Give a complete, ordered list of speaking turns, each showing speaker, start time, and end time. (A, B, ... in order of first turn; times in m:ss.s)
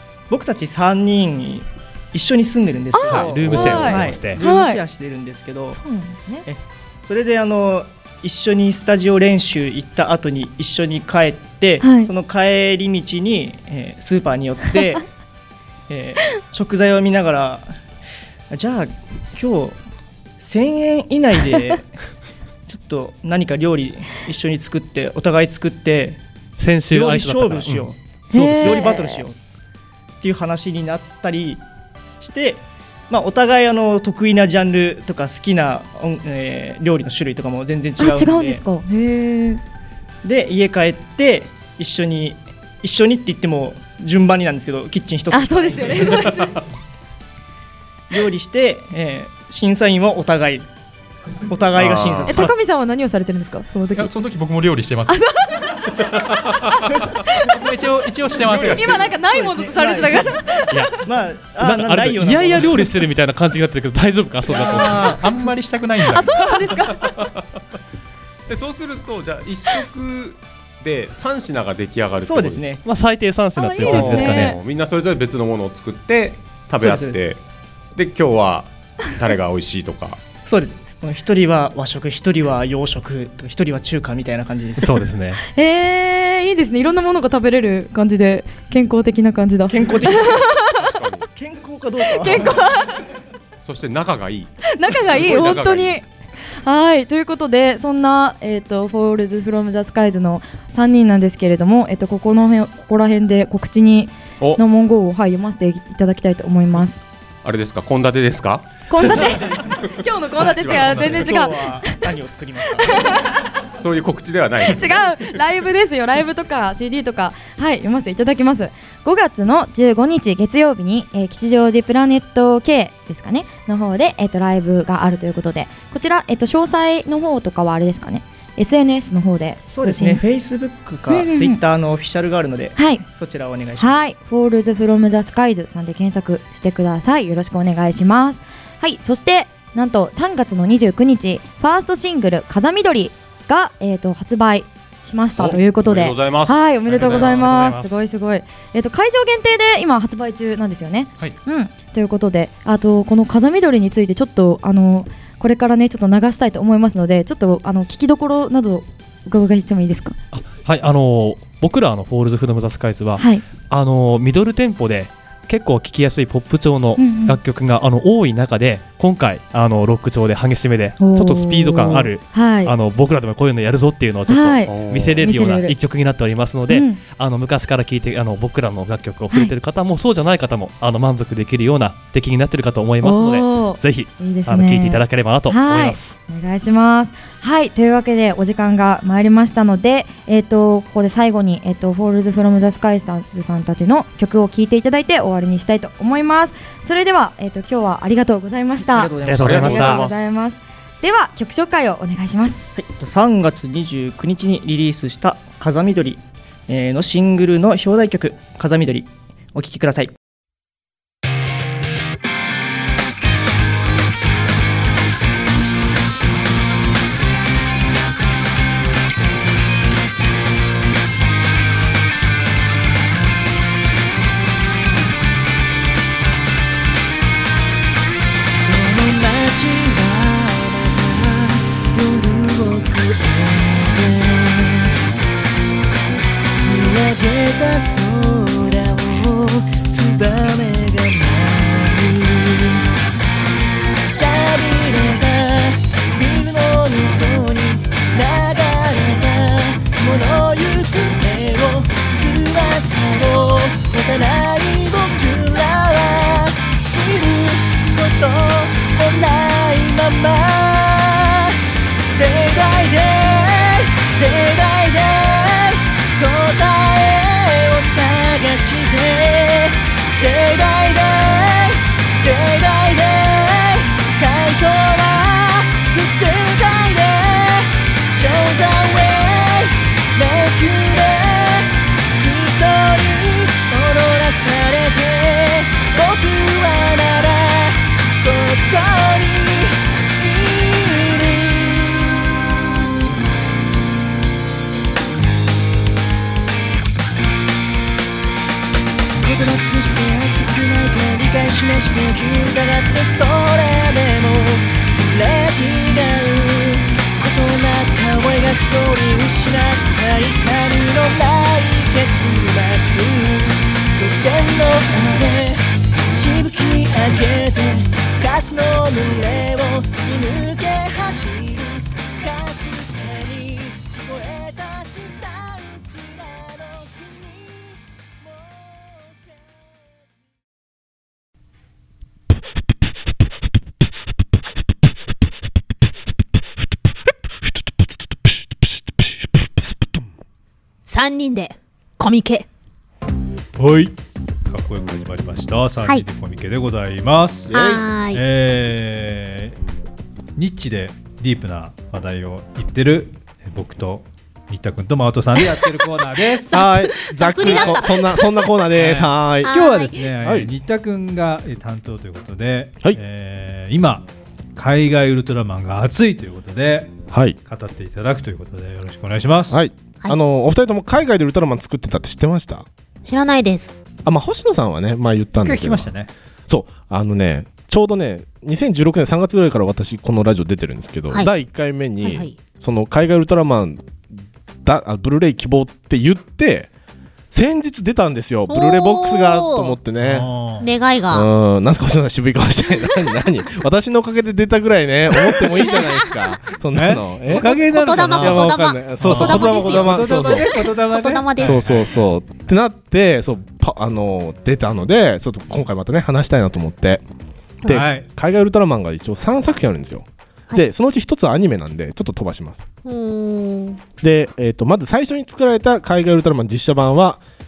0:00.3-0:05.8 A
0:02.9-0:04.8 B
0:03.1-0:04.4 C
0:05.7-0:06.4 B
0:06.4-0:15.1 A
0:11.8-0:12.1 B
0:15.9-0:17.7 A
0:18.5-0:19.8 A
0:20.4-0:21.9 A
0:22.7-0:26.2 A
0:26.6-0:27.9 C
0:26.9-0:29.4 A
0:28.3-0:29.2 B
0:28.5-0:28.8 C
0:30.2-0:31.6 A
0:32.2-0:38.6 A
0:38.0-0:39.6 B
0:40.2-0:46.5 A
0:45.3-0:46.6 B
0:48.1-0:50.7 A
0:51.4-0:52.5 A
0:51.7-0:52.5 D
0:52.3-0:54.1 B
0:53.9-0:55.2 E
0:55.1-0:55.8 B
0:57.5-0:59.1 E
0:58.4-0:59.0 D
0:58.6-1:00.8 B
0:59.2-1:00.4 A
1:00.7-1:01.0 C
1:01.0-1:02.9 A
1:01.6-1:05.3 C
1:04.5-1:06.7 E
1:06.1-1:07.1 B
1:08.5-1:12.7 D
1:12.2-1:12.8 A
1:12.8-1:14.6 C
1:13.6-1:14.6 B
1:13.8-1:17.4 D
1:16.8-1:17.2 A
1:17.9-1:20.2 D
1:20.4-1:25.0 A
1:24.8-1:25.4 C
1:25.5-1:30.8 B
1:29.7-1:30.4 A
1:30.7-1:31.3 D
1:31.3-1:32.6 A
1:32.1-1:32.9 B
1:33.6-1:36.0 D
1:34.7-1:36.0 B
1:36.6-1:47.0 B
1:47.4-1:51.3 D
1:48.9-1:51.9 B
1:51.0-1:53.1 A
1:52.9-1:53.3 B
1:53.8-1:55.3 D
1:54.6-2:10.2 B
2:09.7-2:14.0 A
2:11.1-2:11.6 B
2:12.8-2:13.0 B
2:13.8-2:40.2 B
2:25.4-2:27.6 D
2:26.9-2:28.0 C
2:40.3-3:06.2 C
2:43.2-2:43.4 B
2:47.0-2:47.4 B
2:51.0-2:52.7 B
2:54.3-2:55.7 B
2:54.6-2:55.3 D
2:56.7-2:57.0 B
3:03.0-3:22.6 B
3:18.9-3:20.1 A
3:19.2-3:20.0 C
3:19.4-3:20.2 D
3:22.8-3:30.1 A
3:48.6-3:54.9 F
3:56.6-4:02.8 F
4:04.1-4:21.5 F
4:22.1-4:52.1 F
4:59.2-5:29.3 F
5:40.8-5:42.4 G
5:43.6-5:49.6 H
5:47.5-5:48.2 G
5:47.5-5:47.8 I
5:50.4-5:56.7 H
5:55.4-5:55.7 G
5:56.4-5:58.6 G
5:56.5-5:59.5 I
5:57.2-5:57.8 H
5:58.7-6:09.6 H
5:59.4-6:00.1 G
6:00.2-6:00.5 I
6:07.1-6:07.4 I
6:09.5-6:12.6 I
6:13.0-6:13.8 G
6:14.0-6:15.9 I
6:15.4-6:16.1 H
6:16.5-6:23.9 I
6:22.0-6:22.4 G
6:24.6-6:26.7 I
6:27.3-6:30.3 I
6:28.5-6:29.8 G
6:30.0-6:30.7 H
6:30.6-6:31.3 G
6:31.1-6:40.7 I
6:35.2-6:36.1 G
6:36.7-6:42.1 H
6:37.3-6:41.8 G
6:41.4-6:47.0 I
6:47.6-6:52.6 I
6:47.7-6:48.1 H
6:52.8-6:53.8 G
6:54.0-6:57.2 I